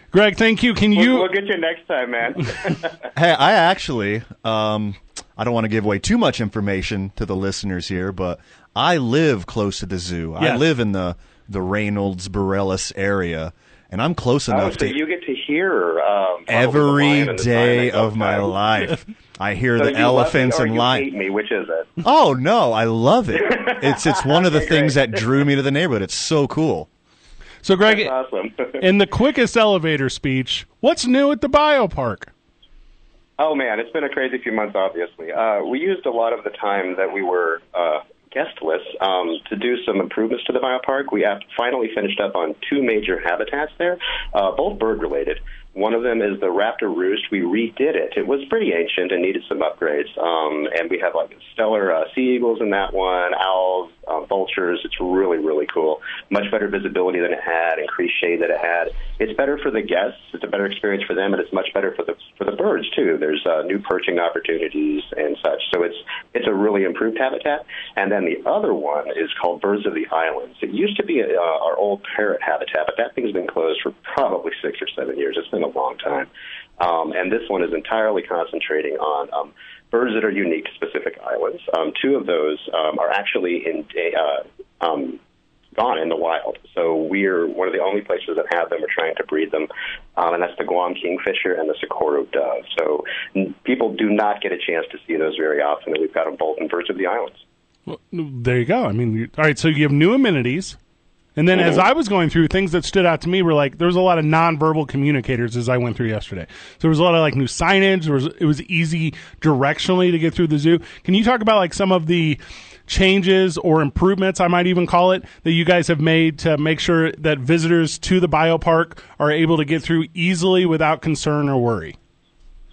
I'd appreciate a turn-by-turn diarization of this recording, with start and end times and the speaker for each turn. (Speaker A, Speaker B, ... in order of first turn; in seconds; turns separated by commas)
Speaker A: 0.1-1.3, Speaker B: 0.9-3.1, Speaker C: 3.1-15.0, Speaker A: 10.4-10.7, Speaker B: 14.5-18.6, Speaker C: 16.5-21.1, Speaker B: 19.8-22.0, Speaker C: 22.0-26.9, Speaker B: 23.4-25.1, Speaker A: 27.6-28.1, Speaker B: 27.9-28.8, Speaker A: 28.8-32.3, Speaker B: 33.4-85.2, Speaker B: 85.8-97.4, Speaker A: 97.9-100.8, Speaker A: 101.4-122.0